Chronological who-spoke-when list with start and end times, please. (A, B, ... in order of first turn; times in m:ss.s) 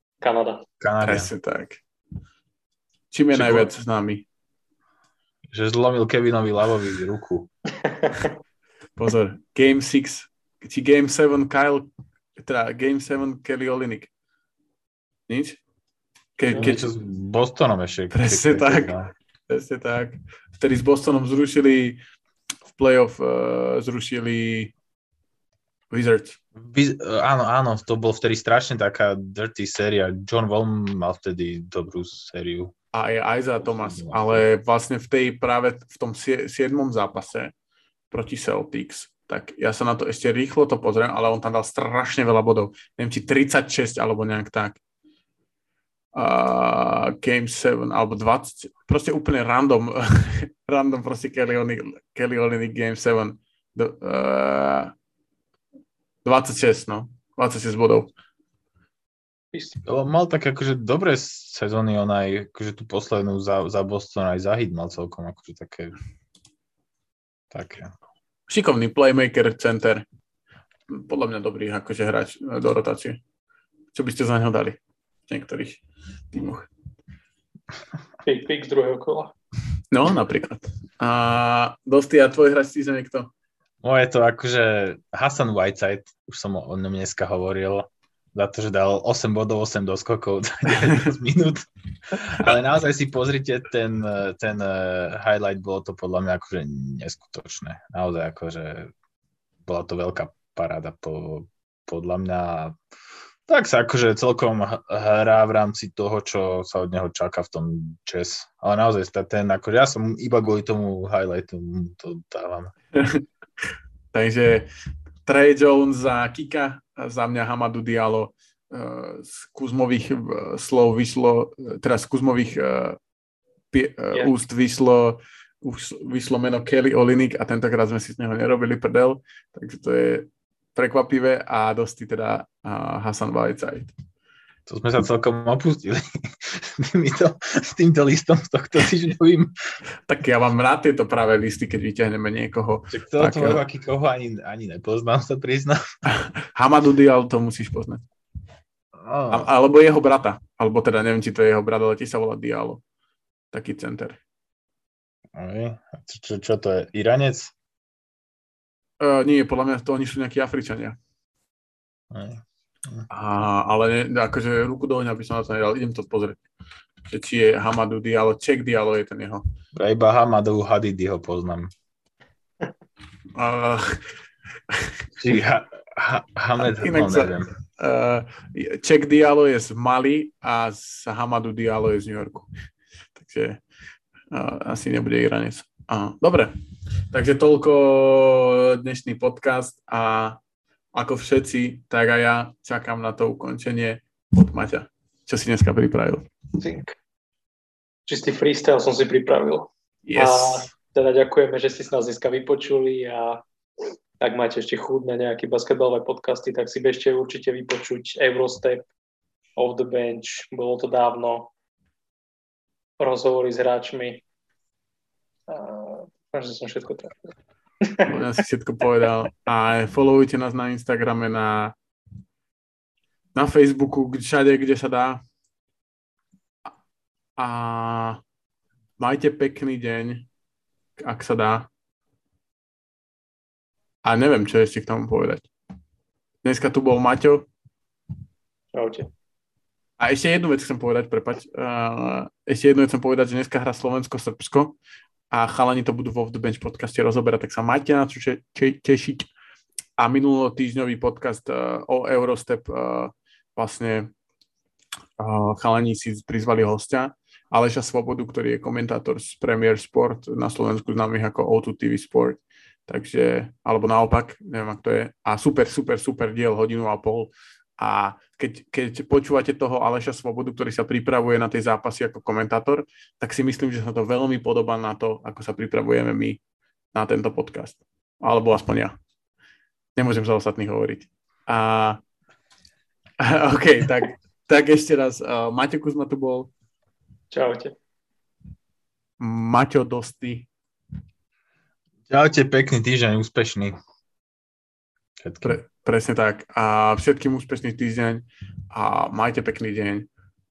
0:00.2-0:00.6 A
0:00.8-0:01.3 B
0:01.0-0:01.8 C
0:03.1-0:04.2 C
0:03.3-0:03.7 B
0:05.5-0:07.5 B
0:07.8-0:08.3 A
0:09.0-0:14.1 C
0:15.3-0:15.6 C
0:16.4-0:16.8 C
0:16.5-0:19.1 B
0:18.1-0:18.9 C
0:19.5-0:22.0 C
0:22.7-0:24.7 C
0:25.9-0:26.4 C
0:26.5-0:32.7 B
0:32.9-0:37.5 C
0:33.6-0:34.4 B
0:38.1-0:44.8 C
0:46.1-0:54.9 C
0:56.2-0:58.1 C
0:59.5-0:59.8 A
0:59.8-1:06.0 B
1:07.5-1:07.9 B
1:08.5-1:10.0 C
1:10.9-1:13.2 C
1:13.9-1:16.7 C
1:18.2-1:19.3 A
1:19.9-1:23.3 C
1:23.8-1:38.9 B
1:30.8-1:31.1 C
1:39.6-1:42.8 B
1:43.5-1:52.7 B
1:52.9-1:53.2 C
1:54.1-1:54.7 C
1:55.2-2:03.0 C
2:03.7-2:13.9 C
2:14.7-2:19.5 B
2:20.0-2:23.6 C
2:22.9-2:25.8 B
2:26.1-2:28.0 C
2:29.0-2:29.5 B
2:29.3-2:32.8 C
2:33.5-2:34.2 C
2:35.3-2:37.5 B
2:39.0-2:41.0 C
2:42.1-2:43.1 B
2:43.1-2:46.4 C
2:47.1-2:49.4 C
2:49.7-2:51.7 B
2:53.3-2:54.0 C
2:55.2-2:57.5 B
2:56.6-3:02.5 C
3:03.2-3:03.6 C
3:04.3-3:06.5 C
3:07.1-3:10.4 C
3:10.9-3:16.3 C
3:16.6-3:16.9 A
3:18.1-3:23.4 A
3:20.0-3:20.7 C
3:24.2-3:28.9 A
3:29.6-3:31.5 A
3:33.0-3:34.2 A
3:35.5-3:37.3 A
3:37.8-3:38.2 A
3:38.0-3:41.7 C
3:43.3-3:45.2 C
3:47.4-3:48.2 C
3:49.0-3:50.3 C
3:51.0-3:51.7 C
3:54.0-3:55.5 C
3:56.4-3:57.5 C
3:58.7-3:59.1 A
4:00.0-4:04.8 C
4:05.3-4:09.3 C
4:10.0-4:14.1 C
4:15.2-4:36.4 C
4:36.9-4:38.9 C
4:40.0-4:42.0 C
4:43.2-4:46.5 C
4:47.3-4:47.7 A
4:49.2-4:50.5 C
4:52.1-4:53.7 B
4:55.2-4:55.6 B
4:55.4-5:00.1 C